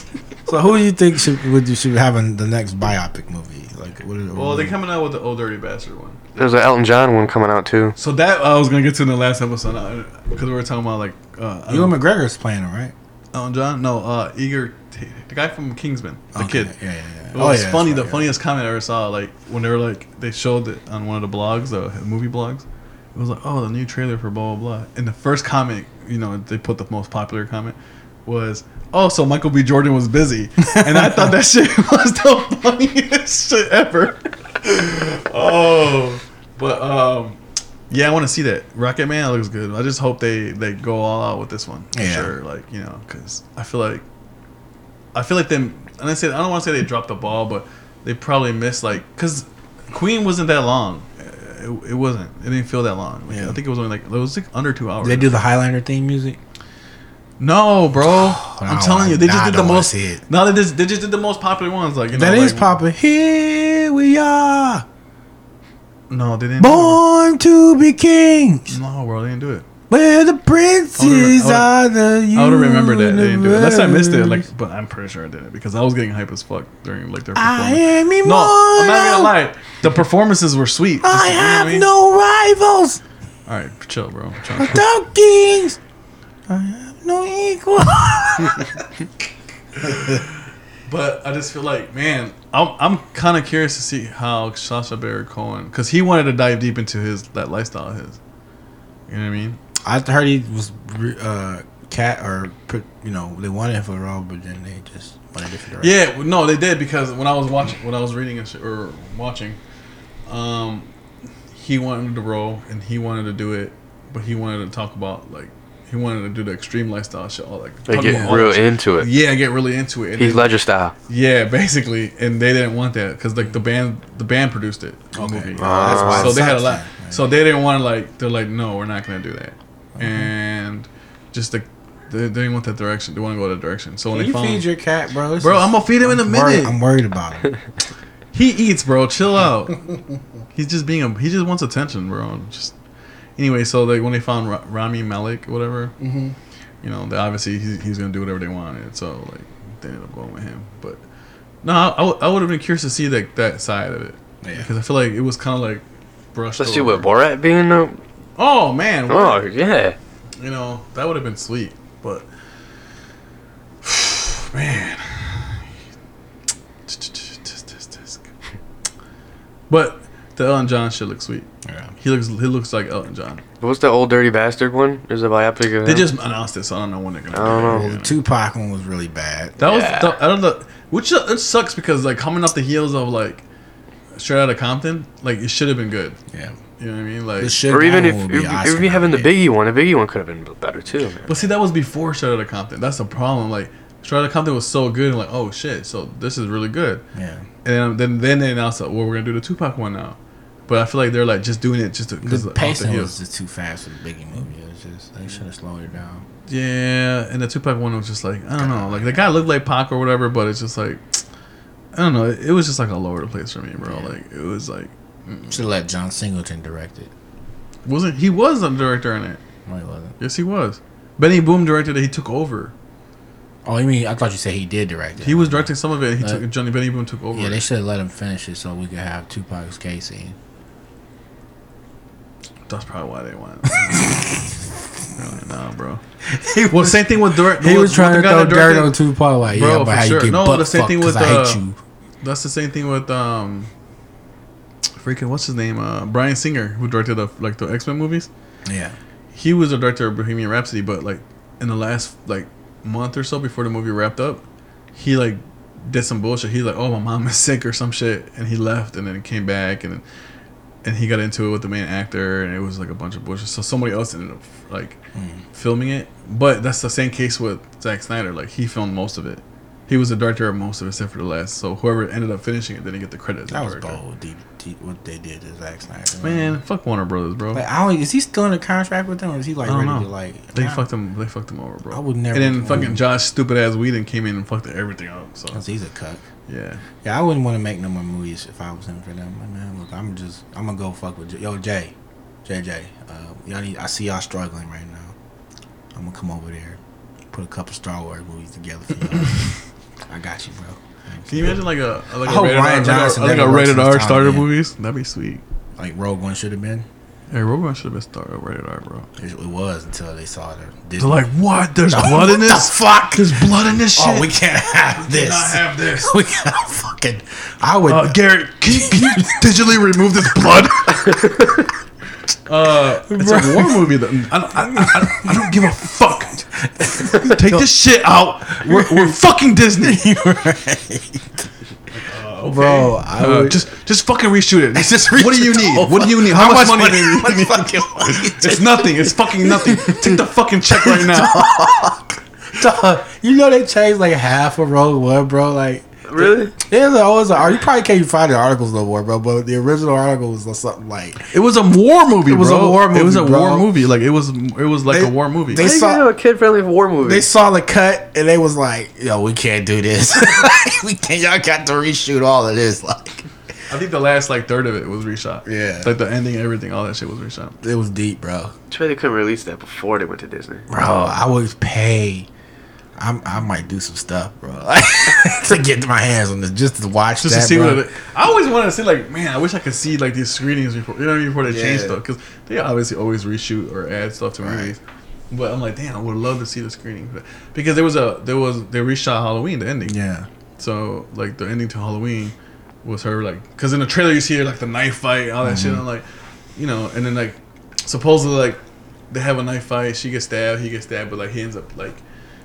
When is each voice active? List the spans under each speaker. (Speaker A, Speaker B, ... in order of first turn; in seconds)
Speaker A: 0.5-4.8, 11.7-12.9, 16.3-18.3, 41.9-42.3, 53.3-53.6, 55.0-56.4, 58.0-60.2, 62.1-64.8, 66.6-68.7, 69.9-74.5, 77.3-79.3, 81.0-83.0, 84.6-85.8, 86.5-88.8, 89.8-90.2, 99.8-106.0, 118.0-118.3, 125.1-127.2, 130.0-130.3, 134.1-137.5, 146.0-146.3, 154.4-154.7, 171.6-171.9, 177.7-179.6, 186.3-186.6, 187.4-189.3, 197.1-197.5, 202.2-206.2, 208.5-209.3, 213.8-214.1, 215.5-217.1, 219.7-220.2, 223.6-226.4, 227.3-230.3, 236.3-241.8, 248.7-248.9, 265.1-265.4, 273.5-276.6, 277.5-280.8, 281.9-283.1, 285.5-286.2, 287.0-291.9, 292.4-295.1, 295.9-296.8, 297.3-299.5, 300.1-301.6, 302.2-304.5, 305.8-306.9, 309.2-311.3, 311.9-319.7, 323.1-323.9, 324.6-325.7, 326.5-327.7, 328.5-329.2, 329.8-331.5, 332.4-333.6, 334.7-342.0, 342.5-351.3, 352.2-353.7, 354.9-356.1, 357.0-363.2, 365.4-365.9, 367.6-368.5, 370.7-372.3, 373.0-377.9, 381.4-382.0, 384.4-384.8, 389.9-390.3, 395.4-395.8
Speaker B: 4.3-6.2, 8.0-12.0, 13.3-16.7, 17.3-37.4, 37.9-44.0, 45.1-55.4, 57.4-62.7, 66.1-67.0, 68.7-69.7, 71.0-71.7, 72.3-81.9, 83.5-84.8, 89.8-90.2, 90.8-98.2, 99.1-99.6, 105.8-109.6, 110.3-110.9, 111.5-120.5, 121.1-134.7, 135.4-136.8, 138.3-139.8, 140.5-142.7, 143.4-145.9, 146.8-151.0, 151.6-157.1, 158.4-159.4, 160.4-162.3, 163.8-165.6, 166.9-168.2, 169.7-171.5, 172.0-173.4, 175.8-178.2, 179.6-183.4, 184.1-186.2, 186.8-187.6, 191.3-197.0, 197.6-200.2, 200.7-203.1, 206.5-211.0, 211.9-215.6, 217.8-219.4, 220.2-222.7, 225.2-227.6, 232.7-234.5, 235.1-236.0, 236.7-238.9, 239.5-241.6, 242.2-243.7, 245.0-248.3, 249.3-254.4, 254.9-260.0, 260.8-265.0, 265.5-274.0, 276.2-277.6, 279.6-285.6, 286.5-286.8, 301.3-305.4, 307.3-309.1, 311.0-314.3, 314.9-316.1, 317.9-321.5, 322.4-326.4, 327.0-330.1, 331.9-342.0, 351.3-355.7, 363.7-367.6, 377.2-390.0, 390.6-396.0, 396.6-398.6, 399.1-402.0
Speaker C: 6.3-7.9, 117.9-119.1, 120.2-120.9, 125.6-126.4, 156.6-158.0, 159.1-159.9, 173.6-176.1, 177.3-177.8, 179.6-180.1, 187.7-191.4, 346.1-346.5, 355.5-357.3, 368.7-371.1